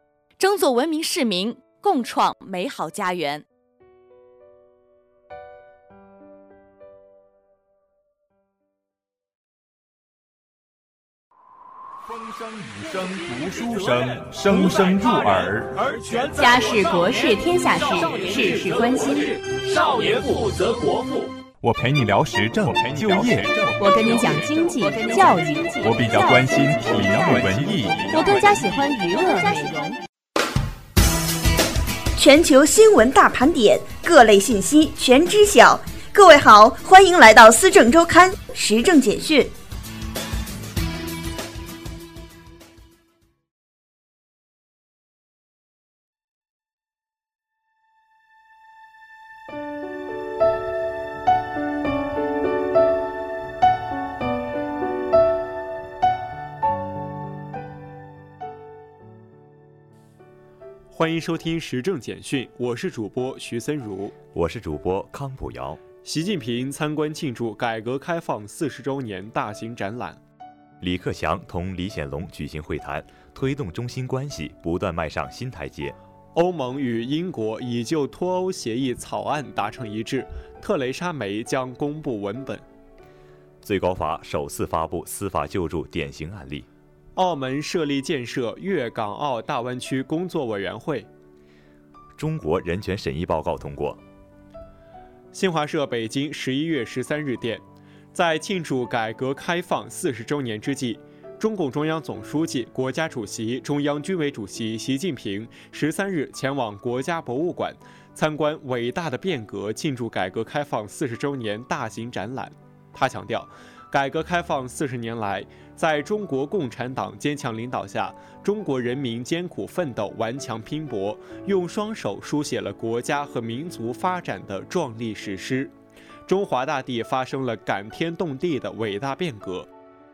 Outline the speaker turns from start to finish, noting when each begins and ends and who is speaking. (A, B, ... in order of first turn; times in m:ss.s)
0:00.4-0:03.4 A
0:12.1-0:15.8 B
0:16.1-0:19.4 C
0:21.6-0:24.4 B
0:23.8-0:27.4 C
0:25.8-0:28.1 B
0:28.1-0:30.0 C
0:32.2-0:39.5 D
1:00.9-1:04.1 E
1:04.3-1:05.8 F
1:06.0-1:10.2 E
1:10.8-1:16.0 F
1:16.3-1:22.6 E
1:23.6-1:26.7 F
1:27.2-1:31.1 E
1:32.2-1:34.0 F
1:35.3-2:05.7 E
2:06.2-2:09.7 E